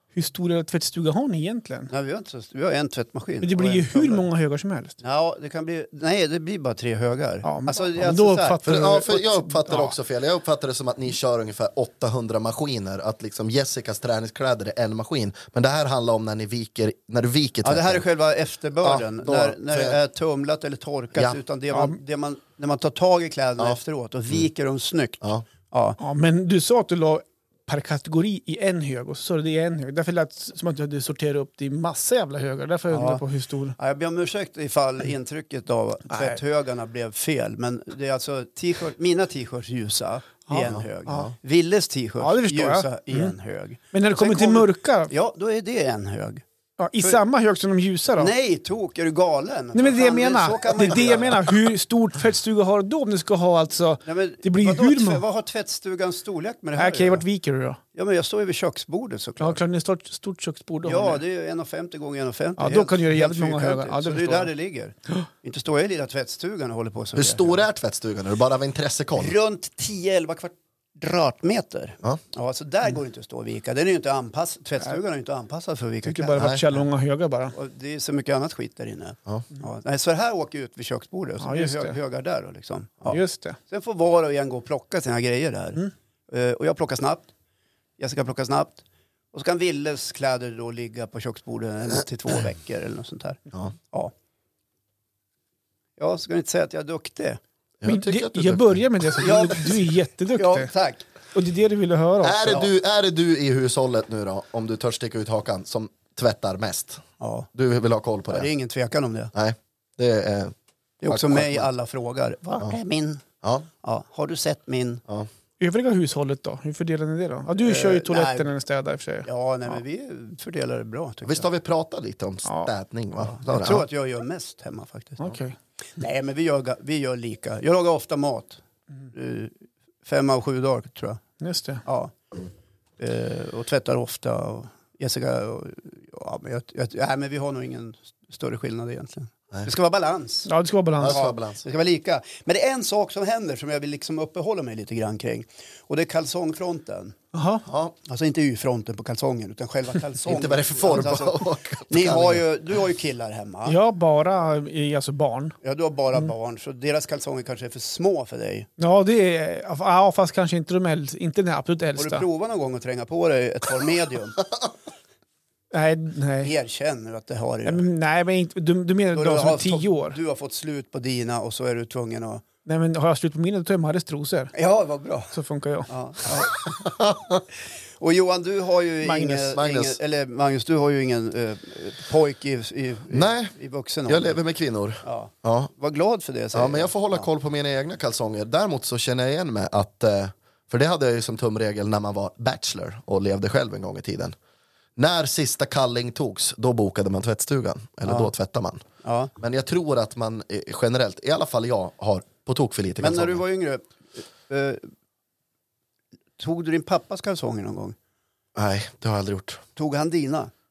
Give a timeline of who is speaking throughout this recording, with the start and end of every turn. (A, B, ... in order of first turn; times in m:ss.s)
0:00.1-0:01.9 A
0:01.9-0:04.2 B
0:03.4-0:05.0 A
0:05.0-0:08.6 B
0:07.4-0:09.9 A
0:08.6-0:18.0 C
0:17.6-0:26.0 B
0:18.8-0:20.0 C
0:21.7-0:22.0 A
0:26.0-0:33.8 A
0:32.9-0:33.2 B
0:33.8-0:46.4 B
0:36.1-0:36.4 A
0:40.5-0:41.3 A
0:40.7-0:41.3 C
0:42.2-0:43.3 A
0:43.9-0:45.1 A
0:46.8-0:48.3 A
0:48.2-0:51.5 B
0:49.7-0:55.2 A
0:54.0-0:57.2 B
0:56.8-0:57.8 A
0:57.9-0:59.6 B
0:59.4-1:01.2 A
1:00.8-1:07.6 B
1:02.6-1:04.5 A
1:07.1-1:09.3 C
1:09.2-1:16.8 B
1:16.0-1:17.5 A
1:16.4-1:16.6 C
1:17.5-1:27.3 B
1:21.4-1:22.0 A
1:23.1-1:23.6 A
1:28.0-1:34.1 B
1:36.0-1:37.4 B
1:37.8-1:38.8 C
1:37.8-1:40.7 A
1:39.2-1:41.0 B
1:41.3-1:42.5 A
1:42.2-1:48.5 C
1:47.2-1:47.5 B
1:48.3-1:49.3 B
1:49.3-1:50.5 C
1:51.0-1:53.2 B
1:51.1-1:51.7 C
1:53.4-1:53.7 C
1:53.8-1:55.0 B
1:55.6-1:59.3 A
1:57.6-1:58.5 B
1:59.2-2:01.4 B
2:01.2-2:03.8 C
2:02.4-2:02.7 A
2:03.3-2:05.3 B
2:05.2-2:05.5 A
2:06.0-2:11.2 B
2:11.4-2:11.8 A
2:11.8-2:12.1 B
2:13.0-2:20.5 B
2:20.4-2:21.2 A
2:21.0-2:21.6 C
2:21.0-2:27.2 B
2:27.3-2:27.6 A
2:27.6-2:27.9 C
2:28.0-2:33.8 B
2:30.2-2:32.4 C
2:33.6-2:35.5 A
2:35.6-2:38.7 B
2:38.8-2:42.2 A
2:42.0-2:44.4 B
2:45.7-2:46.5 A
2:46.4-2:47.8 B
2:47.6-2:50.2 A
2:49.1-2:52.4 B
2:52.6-2:54.5 A
2:54.5-2:55.3 B
2:55.3-2:55.9 A
2:55.9-2:56.6 B
2:56.7-2:57.4 C
2:58.0-3:04.4 B
2:59.0-2:59.5 A
2:59.5-3:00.0 C
3:03.1-3:03.5 C
3:04.1-3:05.7 C
3:05.0-3:07.3 B
3:06.5-3:14.3 C
3:15.0-3:18.8 C
3:18.0-3:18.3 B
3:19.0-3:19.3 B
3:19.4-3:23.4 C
3:23.0-3:23.9 B
3:24.5-3:24.9 B
3:26.4-3:28.0 B
3:28.5-3:29.6 C
3:29.8-3:30.5 B